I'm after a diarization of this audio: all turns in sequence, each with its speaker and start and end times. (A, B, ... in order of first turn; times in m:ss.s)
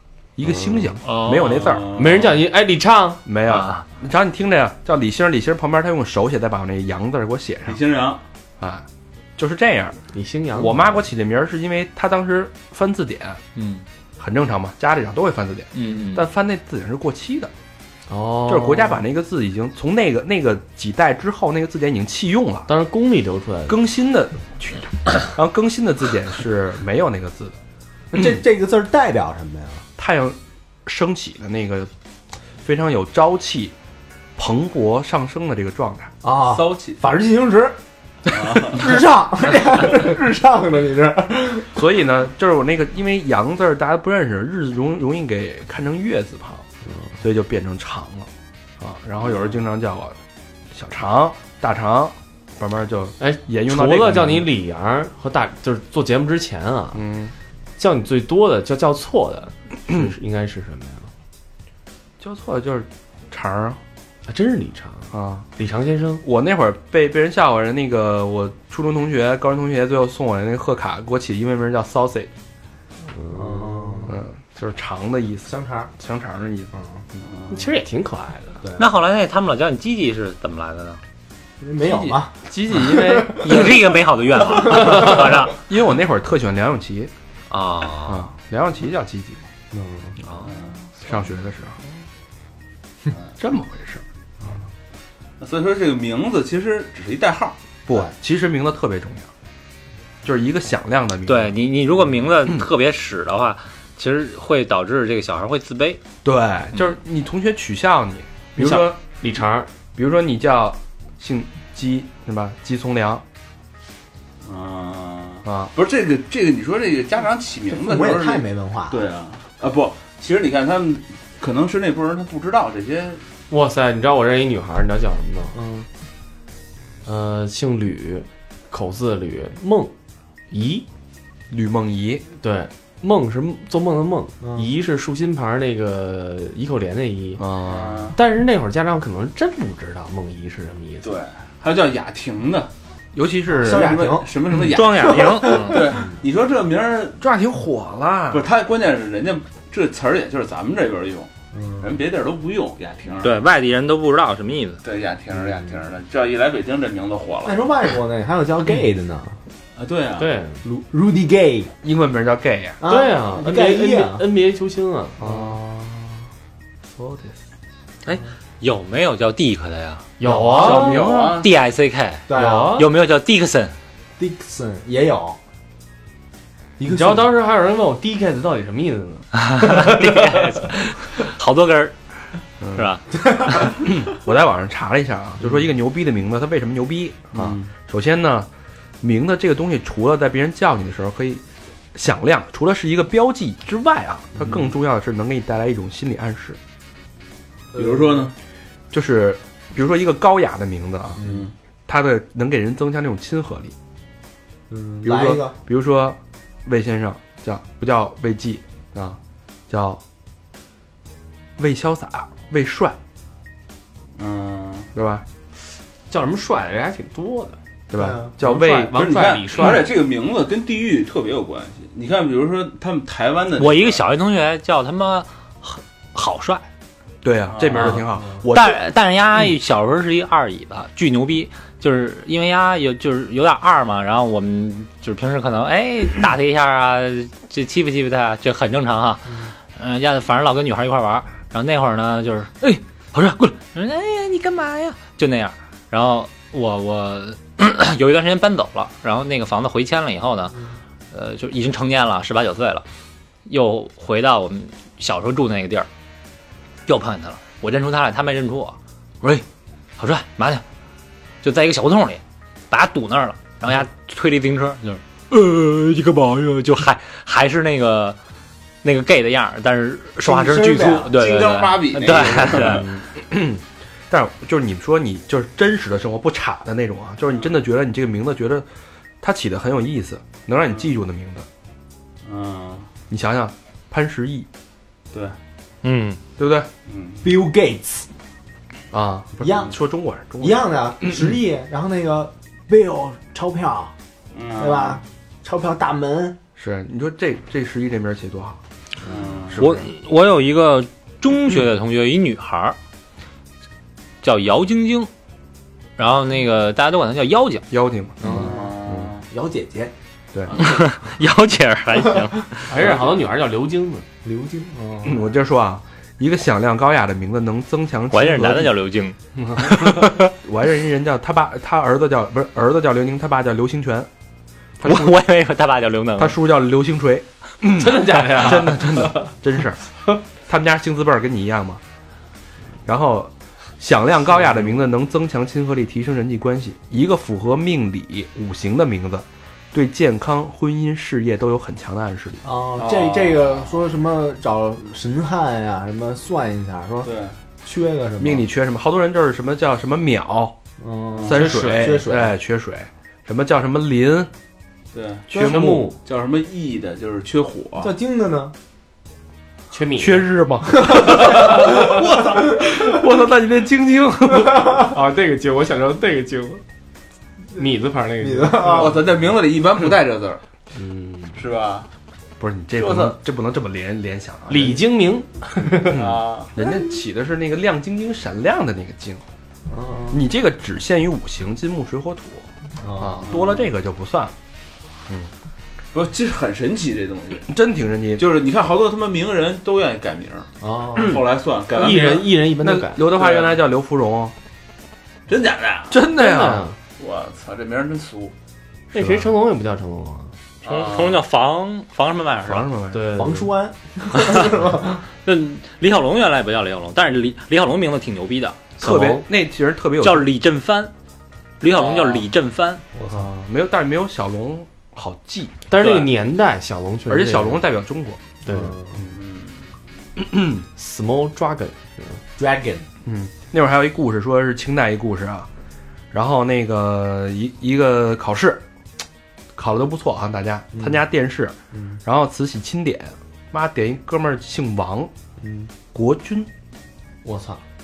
0:00.4-0:01.9 A
0:01.0-0:01.6 B
0:01.3-0:02.3 C
0:01.9-0:03.2 D
0:03.2-0:07.8 A
0:03.5-0:03.8 B
0:07.6-0:08.2 C
0:08.6-0:08.8 A
0:09.4-0:10.0 A
0:10.1-0:11.0 D
0:10.5-0:13.4 A
0:13.6-0:13.8 B
0:14.2-0:17.5 A
0:15.7-0:16.3 B
0:18.1-0:19.0 D
0:18.4-0:22.7 A
0:22.7-0:23.8 D
0:23.7-0:27.6 A
0:28.1-0:29.8 E
0:28.1-0:28.4 A
0:30.0-0:31.9 A
0:32.6-0:33.7 A
0:34.4-0:36.1 A
0:36.2-0:37.8 E
0:36.4-0:37.0 C
0:38.3-0:39.0 C
0:38.6-0:41.8 E
0:41.7-0:46.6 A
0:47.2-0:48.3 A
0:48.8-0:50.2 A
0:50.7-0:54.5 A
0:53.2-0:57.0 D
0:56.9-0:57.3 A
0:57.8-1:01.1 D
1:02.2-1:03.8 A
1:04.2-1:06.2 D
1:05.1-1:05.4 A
1:06.2-1:12.3 A
1:13.1-1:14.1 D
1:13.3-1:14.2 E
1:14.1-1:16.7 A
1:15.5-1:15.9 E
1:17.5-1:18.6 D
1:18.6-1:18.9 E
1:18.7-1:21.0 B
1:21.6-1:23.7 E
1:21.8-1:23.8 A
1:23.2-1:25.6 B
1:24.8-1:27.1 A
1:27.5-1:28.2 B
1:28.0-1:29.4 A
1:29.7-1:30.1 E
1:30.4-1:30.7 C
1:31.0-1:31.8 A
1:33.4-1:34.0 A
1:35.4-1:37.6 C
1:37.9-1:39.3 A
1:40.2-1:41.6 A
1:41.2-1:46.0 B
1:46.2-1:49.0 A
1:48.6-1:49.7 D
1:49.9-1:53.2 A
1:54.4-2:03.2 C
1:55.4-1:55.7 A
1:57.7-1:59.0 E
2:03.5-2:05.6 D
2:05.5-2:05.8 E
2:07.0-2:09.9 D
2:10.5-2:10.8 D
2:11.5-2:12.2 A
2:12.4-2:17.5 D
2:17.4-2:18.0 A
2:17.6-2:18.2 C
2:18.1-2:21.1 D
2:21.0-2:22.7 C
2:23.1-2:24.1 A
2:23.5-2:24.3 E
2:23.6-2:27.2 C
2:24.7-2:25.9 B
2:24.7-2:25.2 A
2:25.2-2:25.7 E
2:27.2-2:28.5 A
2:28.3-2:31.3 C
2:31.5-2:31.9 E
2:31.8-2:33.4 C
2:33.2-2:34.8 B
2:34.8-2:37.7 C
2:35.4-2:35.7 E
2:37.4-2:39.4 E
2:39.8-2:40.3 C
2:40.2-2:40.6 D
2:40.6-2:41.7 E
2:41.8-2:42.8 A
2:42.8-2:44.2 E
2:42.8-2:45.2 D
2:45.2-2:45.5 E
2:45.2-2:46.2 A
2:46.9-2:47.4 A
2:48.0-2:50.0 B
2:50.2-2:51.0 D
2:50.5-2:51.4 A
2:50.5-2:51.5 C
2:51.3-2:53.7 B
2:52.3-2:52.8 E
2:52.3-2:52.9 D
2:54.2-2:55.4 E
2:56.8-2:57.3 E
2:56.9-3:00.7 D
2:59.4-3:01.9 B
3:02.6-3:02.9 A
3:02.7-3:03.8 B
3:03.6-3:08.5 A
3:07.3-3:07.7 C
3:09.0-3:11.4 A
3:11.9-3:16.6 A
3:17.7-3:18.3 C
3:17.7-3:18.3 E
3:18.9-3:21.2 A
3:21.2-3:21.4 E
3:21.2-3:21.5 C
3:21.9-3:23.7 A
3:24.7-3:25.5 E
3:25.0-3:29.2 A
3:29.7-3:30.0 A
3:31.6-3:33.0 A
3:34.2-3:34.9 C
3:34.9-3:35.2 A
3:36.1-3:37.6 D
3:37.9-3:39.0 A
3:37.9-3:38.3 E
3:38.4-3:39.9 D
3:38.9-3:44.0 C
3:43.6-3:46.6 B
3:47.2-3:48.8 A
3:47.5-3:48.1 C
3:48.5-4:10.5 B
4:11.1-4:12.8 B
4:13.4-4:15.9 B
4:16.8-4:19.4 B
4:20.0-4:20.6 B
4:21.4-4:28.2 B
4:28.8-4:32.9 B
4:30.2-4:31.1 E
4:31.0-4:32.9 C
4:33.1-4:38.6 A
4:39.2-4:41.4 A
4:42.2-4:42.9 C
4:43.1-4:44.5 A
4:45.8-4:46.2 B
4:46.4-4:46.7 A
4:46.9-4:47.3 C
4:47.2-4:48.1 E
4:48.9-4:51.2 A
4:49.4-4:49.7 E
4:50.4-4:53.9 E
4:54.3-4:55.0 C
4:54.5-4:56.4 E
4:56.6-4:58.6 A
4:59.0-4:59.6 C
4:59.5-4:59.9 A
4:59.6-5:02.8 B
5:04.2-5:05.1 B
5:06.0-5:07.6 B
5:07.7-5:09.1 A
5:08.2-5:09.2 C
5:08.2-5:09.9 E
5:10.5-5:10.8 C
5:10.5-5:12.7 B
5:12.7-5:14.0 D
5:14.2-5:15.2 E
5:15.0-5:18.7 A
5:18.1-5:20.3 B
5:19.5-5:24.1 A
5:24.8-5:25.2 A
5:24.8-5:26.4 B
5:26.2-5:29.8 A
5:27.7-5:29.3 D
5:30.4-5:31.8 A
5:32.8-5:42.4 A
5:42.4-5:47.1 E
5:42.8-5:43.9 C
5:47.0-5:47.4 C
5:47.6-5:48.4 E
5:48.2-5:50.6 A
5:50.8-5:52.3 E
5:51.1-5:51.5 C
5:51.2-5:54.3 A
5:54.9-5:55.3 C
5:55.3-5:55.9 A
5:55.3-5:56.0 D
5:55.3-5:55.8 E
5:56.0-5:57.9 C
5:57.8-5:58.5 E
5:59.7-6:00.3 D
6:00.0-6:05.0 A
6:00.8-6:02.0 E
6:04.8-6:06.6 D
6:07.6-6:09.0 D
6:08.2-6:09.1 E
6:08.6-6:10.4 C
6:10.7-6:11.4 D
6:11.4-6:11.9 C
6:12.4-6:14.8 A
6:12.8-6:13.2 C
6:14.5-6:16.0 D
6:15.7-6:19.2 A
6:15.9-6:16.5 C
6:19.7-6:20.2 E
6:20.1-6:24.3 A
6:22.8-6:23.3 E
6:23.2-6:23.7 C
6:25.9-6:27.5 C
6:27.5-6:28.2 A
6:28.2-6:32.3 C
6:30.6-6:33.2 D
6:32.6-6:34.3 A
6:33.2-6:33.6 C
6:35.3-6:36.0 C
6:35.9-6:36.6 A
6:36.1-6:36.8 D
6:37.0-6:38.3 C
6:38.9-6:39.3 A
6:38.9-6:40.3 D
6:40.6-6:41.2 C
6:40.6-6:42.7 B
6:42.4-6:43.2 A
6:42.9-6:43.5 D
6:43.1-6:45.0 E
6:45.2-6:48.7 B
6:48.8-6:49.2 D
6:48.8-6:50.3 A
6:50.0-6:50.9 B
6:51.6-6:52.8 B
6:51.7-6:52.2 C
6:53.0-6:53.2 E
6:53.2-6:55.5 A
6:55.7-6:57.6 D
6:55.8-6:56.0 B
6:57.1-6:58.2 A
6:58.4-6:58.7 D
6:58.5-6:59.0 E
6:59.1-6:59.6 C
7:00.2-7:00.6 A
7:00.7-7:02.2 D
7:02.4-7:02.8 E
7:03.0-7:05.5 A
7:06.1-7:08.6 A
7:09.6-7:15.1 A
7:10.7-7:11.0 E
7:11.7-7:12.0 E
7:15.4-7:15.7 E
7:15.9-7:16.5 A
7:17.2-7:17.6 E